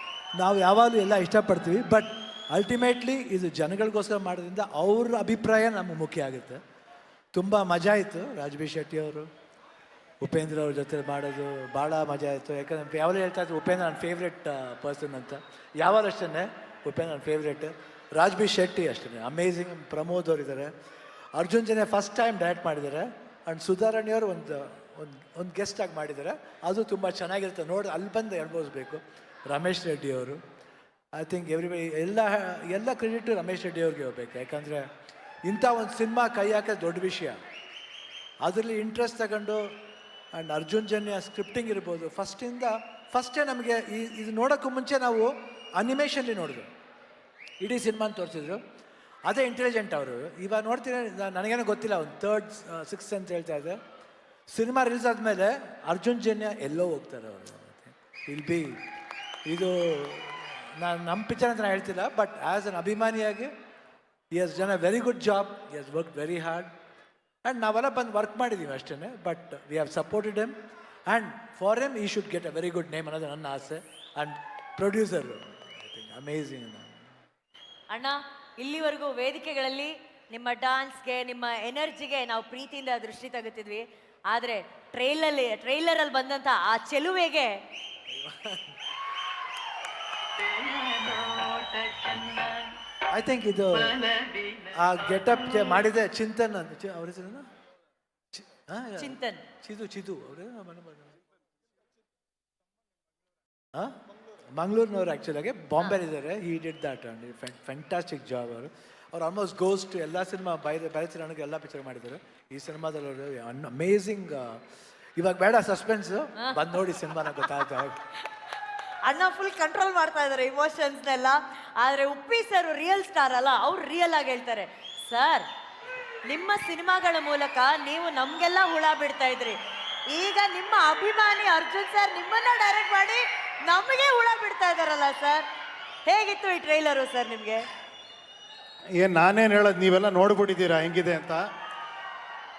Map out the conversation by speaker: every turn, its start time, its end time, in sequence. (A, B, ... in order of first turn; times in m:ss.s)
0:00.4-0:06.6 A
0:07.3-0:09.3 A
0:10.2-0:20.7 A
0:21.3-0:30.4 A
0:31.1-0:34.9 A
0:35.4-0:37.4 A
0:38.4-0:39.7 A
0:40.3-0:46.7 A
0:47.6-0:48.6 A
0:49.3-0:53.8 A
0:54.5-0:58.8 A
0:59.5-1:03.5 A
1:04.3-1:06.7 A
1:07.4-1:17.0 A
1:17.9-1:27.6 B
1:28.1-1:28.8 A
1:30.4-1:32.7 B
1:33.1-1:34.1 A
1:34.0-1:34.5 B
1:34.7-1:37.5 A
1:38.3-1:41.1 A
1:39.0-1:39.4 B
1:44.5-1:54.6 A
1:55.2-1:58.0 A
1:59.0-2:05.5 B
2:06.2-2:09.6 B
2:10.1-2:15.5 B
2:16.1-2:17.7 B
2:19.0-2:21.4 C